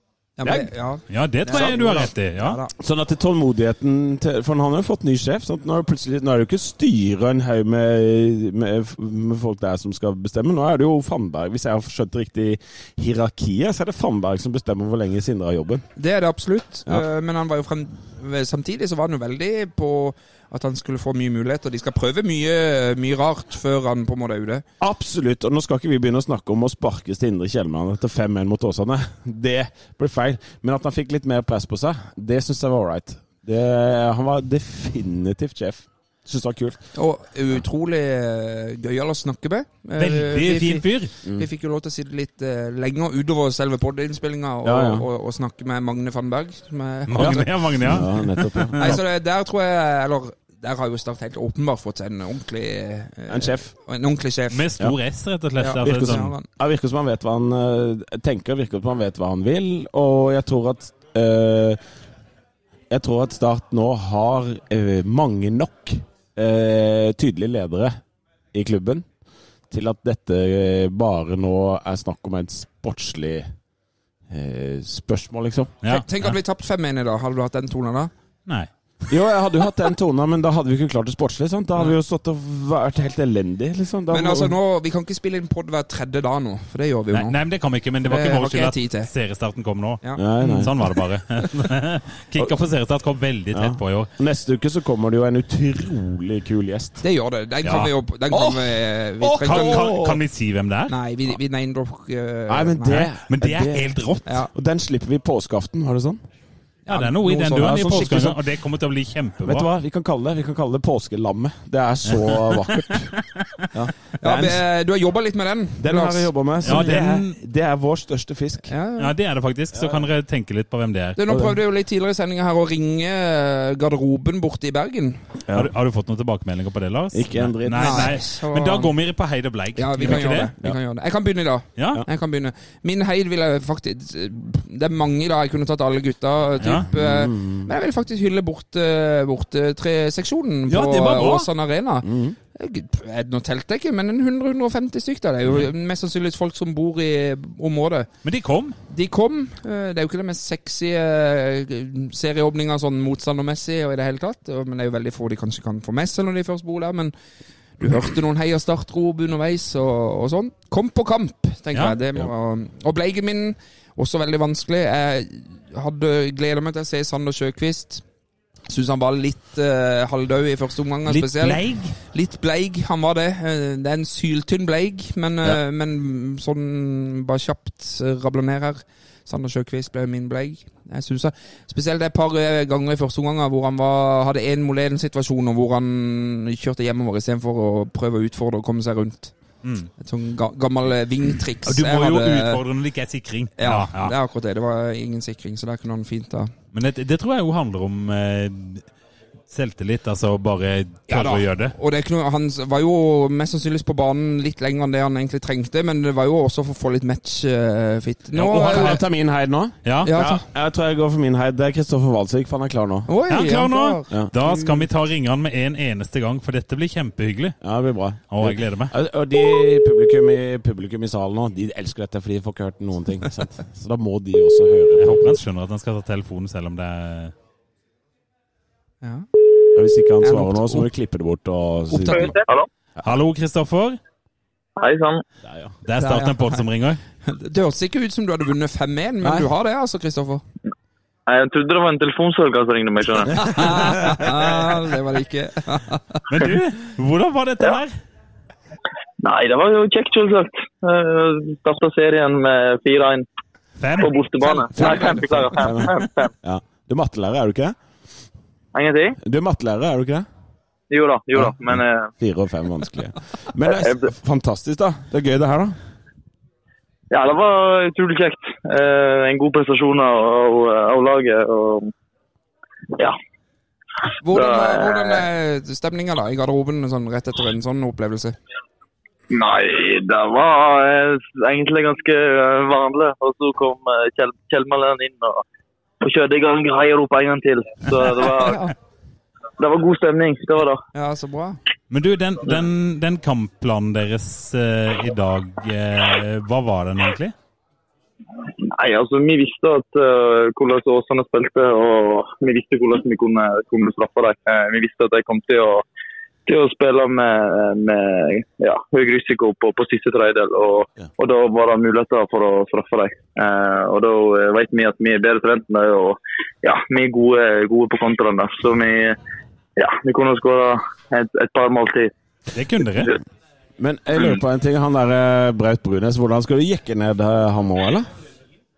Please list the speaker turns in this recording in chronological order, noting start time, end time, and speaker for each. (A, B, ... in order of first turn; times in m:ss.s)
0:00.4-0:02.7 A
0:01.1-0:02.6 B
0:01.5-0:02.1 C
0:02.8-0:15.8 C
0:16.0-0:24.6 A
0:24.8-0:36.8 C
0:37.0-0:47.5 A
0:40.0-0:41.1 B
0:44.6-0:45.0 C
0:47.1-0:49.0 B
0:47.2-0:49.0 C
0:48.8-0:54.6 A
0:53.3-0:53.7 C
0:54.5-0:56.3 B
0:55.6-0:56.5 A
0:55.8-1:01.8 C
1:02.9-1:08.0 C
1:08.5-1:09.1 C
1:09.7-1:13.5 C
1:14.3-1:15.7 C
1:15.8-1:16.4 B
1:15.9-1:18.1 A
1:19.1-1:24.6 C
1:24.1-1:27.4 A
1:27.1-1:34.1 B
1:28.1-1:29.1 A
1:30.0-1:30.9 A
1:30.2-1:30.7 C
1:33.5-1:37.0 C
1:37.0-1:39.9 A
1:37.6-1:37.9 B
1:38.3-1:40.2 C
1:39.4-1:40.9 B
1:40.9-1:43.1 A
1:42.5-1:44.0 C
1:43.3-1:44.3 B
1:44.5-1:46.2 C
1:46.9-1:48.3 A
1:46.9-1:49.7 B
1:47.5-1:48.4 C
1:49.4-1:53.1 C
1:52.1-1:53.2 B
1:53.7-1:54.6 C
1:54.2-1:56.9 A
1:55.8-1:58.7 C
1:56.6-1:57.4 B
1:58.7-1:59.1 A
1:59.0-2:01.2 B
1:59.7-2:00.0 C
2:01.2-2:05.2 A
2:01.3-2:01.6 C
2:05.5-2:05.7 C
2:05.5-2:10.5 B
2:07.1-2:08.2 C
2:07.8-2:08.9 A
2:09.8-2:28.1 A
2:10.0-2:10.8 C
2:11.8-2:12.0 B
2:16.6-2:16.9 B
2:16.9-2:17.7 C
2:20.7-2:21.5 B
2:22.0-2:22.4 C
2:28.2-2:28.8 B
2:28.9-2:37.1 A
2:37.8-2:48.0 A
2:48.7-3:09.3 A
2:51.1-2:52.0 B
3:09.6-3:09.9 B
3:10.0-3:12.6 A
3:11.6-3:14.1 B
3:13.6-3:16.5 A
3:16.7-3:18.9 B
3:19.5-3:21.8 B
3:21.1-3:29.0 A
3:28.4-3:29.0 B
3:28.5-3:33.1 C
3:29.8-3:30.1 B
3:30.0-3:30.4 A
3:33.1-3:34.8 A
3:33.3-3:37.6 B
3:37.6-3:45.4 C
3:38.3-3:38.9 B
3:45.0-3:47.3 B
3:49.0-3:49.3 A
3:49.8-3:52.3 C
3:50.2-3:50.9 A
3:51.9-3:52.4 A
3:53.0-3:54.0 B
3:54.8-3:55.2 D
3:55.4-3:55.8 C
3:55.8-3:57.0 B
3:56.0-3:56.6 A
3:57.2-4:00.4 A
3:59.2-3:59.5 C
4:01.3-4:03.7 D
4:03.4-4:06.2 A
4:06.3-4:08.0 B
4:09.2-4:13.3 D
4:13.8-4:14.1 B
4:14.0-4:16.3 D
4:14.7-4:17.8 C
4:18.7-4:19.2 D
4:19.2-4:20.3 C
4:20.9-4:22.1 D
4:21.3-4:25.8 C
4:23.7-4:24.1 D
4:27.1-4:31.9 D
4:34.2-4:38.4 A
4:34.3-4:35.2 D
4:39.3-4:45.4 D
4:46.0-4:48.6 D
4:48.4-4:48.7 A
4:49.6-4:50.8 D
4:50.9-4:51.6 A
4:51.9-4:57.3 B
4:58.6-5:05.8 D
5:06.5-5:19.2 D
5:19.8-5:22.1 D
5:22.5-5:23.2 B
5:23.8-5:28.1 C